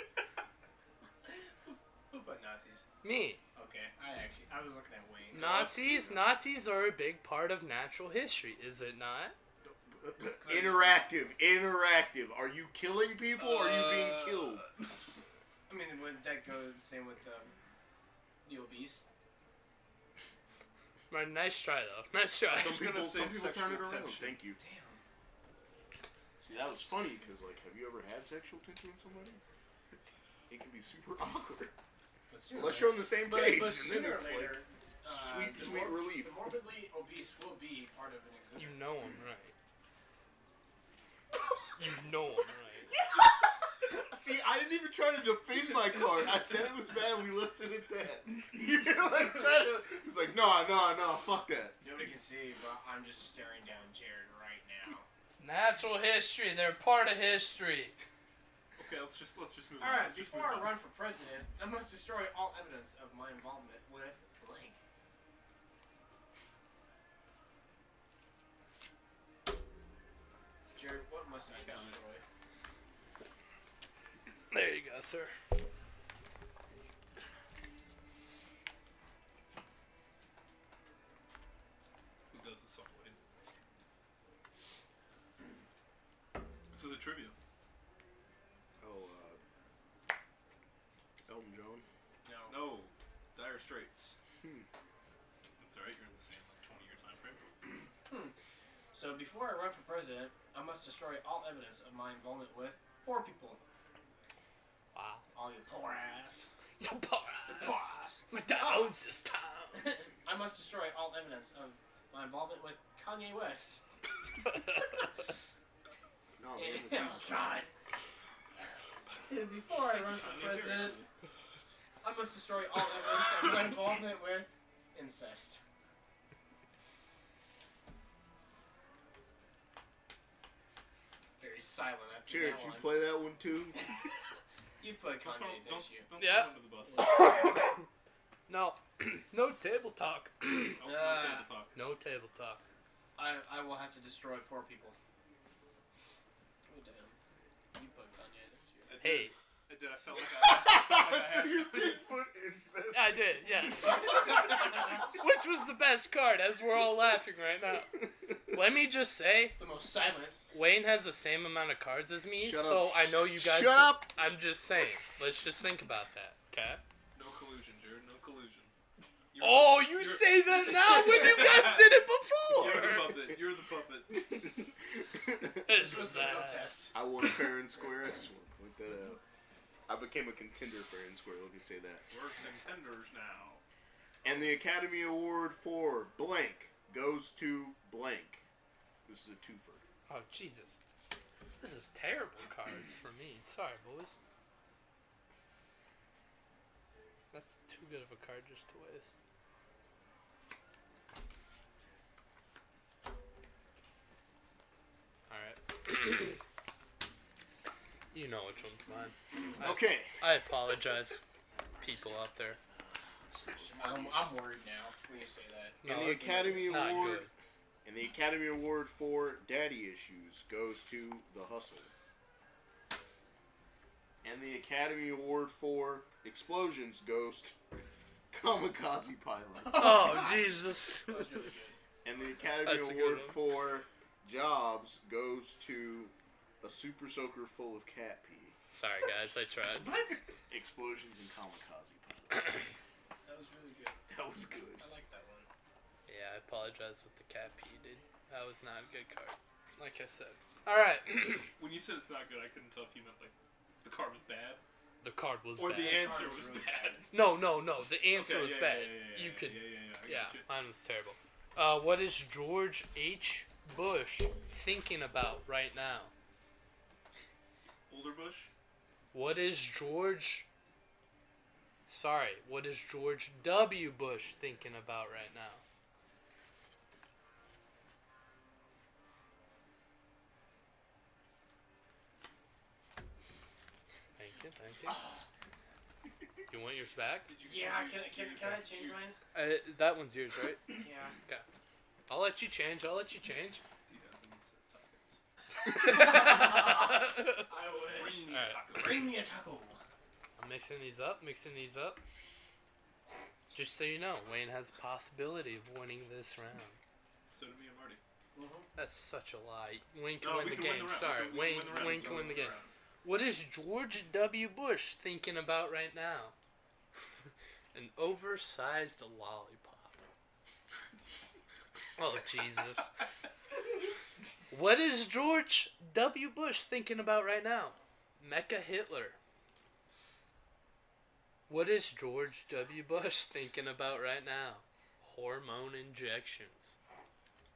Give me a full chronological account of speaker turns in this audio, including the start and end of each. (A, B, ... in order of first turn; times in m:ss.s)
0:01.2-0:02.8 A
0:03.0-0:03.4 B
0:03.6-0:05.5 A
0:05.3-0:09.4 B
0:05.4-0:06.2 C
0:09.6-0:14.6 D
0:10.4-0:11.1 A
0:13.4-0:14.9 C
0:15.7-0:17.5 A
0:18.4-0:19.1 A
0:21.1-0:22.9 B
0:22.6-0:24.4 C
0:22.6-0:24.6 D
0:24.6-0:25.0 A
0:26.4-0:29.4 D
0:30.5-0:31.7 D
0:32.3-0:38.9 A
0:32.5-0:36.4 D
0:38.6-0:39.5 B
0:41.8-0:42.9 B
0:42.9-0:51.8 D
0:51.8-0:55.1 A
0:55.3-0:58.0 B
0:58.8-1:00.8 C
0:59.8-1:04.8 A
1:10.7-1:12.2 A
1:11.5-1:12.0 C
1:14.5-1:15.4 B
1:22.3-1:23.2 C
1:26.7-1:27.4 C
1:28.8-1:29.4 D
1:31.3-1:31.9 D
1:32.2-1:32.6 A
1:32.5-1:34.2 C
1:34.4-1:34.7 D
1:35.6-1:37.4 C
1:38.1-1:38.3 A
1:38.9-1:43.6 A
1:44.9-1:45.3 B
1:45.3-1:46.5 A
1:46.8-1:49.8 B
1:47.5-1:48.9 A
1:49.7-1:53.8 A
1:56.4-1:57.6 D
1:56.6-1:57.7 A
1:59.3-2:01.0 A
1:59.9-2:01.1 C
2:02.0-2:05.6 A
2:11.4-2:13.1 A
2:12.3-2:13.8 D
2:14.8-2:16.1 A
2:15.2-2:17.3 C
2:16.2-2:17.8 B
2:17.0-2:17.6 A
2:18.5-2:20.8 B
2:20.8-2:21.8 C
2:20.8-2:21.5 A
2:21.8-2:22.6 B
2:23.2-2:25.0 A
2:26.7-2:27.2 A
2:27.7-2:29.0 A
2:28.9-2:32.1 C
2:29.0-2:29.4 B
2:30.3-2:34.6 D
2:32.9-2:39.6 B
2:33.8-2:35.1 A
2:39.5-2:40.5 A
2:40.5-2:46.8 B
2:42.4-2:44.1 D
2:47.2-2:48.7 C
2:49.3-2:52.0 C
2:49.4-2:53.2 B
2:52.6-2:54.1 C
2:54.1-2:55.8 D
2:55.7-2:57.3 B
2:55.7-2:57.0 A
2:56.9-2:59.2 D
2:59.9-3:02.0 D
3:02.1-3:03.6 C
3:04.2-3:08.4 D
3:09.1-3:09.8 D
3:10.1-3:10.8 B
3:11.6-3:14.2 B
3:17.3-3:19.2 B
3:25.3-3:26.4 B
3:28.1-3:31.2 B
3:29.6-3:30.2 D
3:31.8-3:34.3 D
3:31.8-3:32.6 B
3:33.6-3:37.0 A
3:35.8-3:37.3 B
3:35.8-3:37.2 D
3:37.8-3:41.9 D
3:44.2-3:47.6 D
3:48.3-3:50.3 D
3:49.7-3:50.5 A
3:49.7-3:51.4 B
3:51.1-3:51.8 A
3:52.0-3:58.6 D
3:52.6-3:53.4 B
3:58.7-4:00.0 B
3:59.8-4:00.2 A
4:00.5-4:02.7 D
4:03.2-4:04.0 A
4:04.1-4:04.8 D
4:04.8-4:05.5 A
4:06.1-4:11.5 B
4:11.6-4:14.6 C
4:15.0-4:16.3 B
4:15.6-4:17.0 C
4:15.8-4:17.1 A
4:17.1-4:26.1 B
4:18.1-4:20.5 C
4:27.9-4:28.5 C
4:29.1-4:30.5 B
4:31.9-4:35.6 B
4:44.2-4:45.1 B
4:44.9-4:45.3 A
4:46.5-4:47.3 B
4:47.3-4:49.1 C
4:47.4-4:49.2 A
4:49.3-4:51.4 B
4:50.7-4:51.2 A
4:52.1-4:53.6 B
4:53.9-4:55.2 C
4:55.6-4:57.5 B
4:55.6-4:59.8 A
4:57.8-4:59.1 C
4:58.3-4:58.6 B
5:00.4-5:02.0 B
5:03.5-5:06.8 B
5:07.3-5:08.0 C
5:08.4-5:08.7 A
5:08.8-5:16.4 B
5:10.2-5:12.6 C
5:11.4-5:12.7 A
5:17.7-5:20.0 B
5:22.0-5:22.9 B
5:24.5-5:29.2 B
5:31.5-5:36.8 B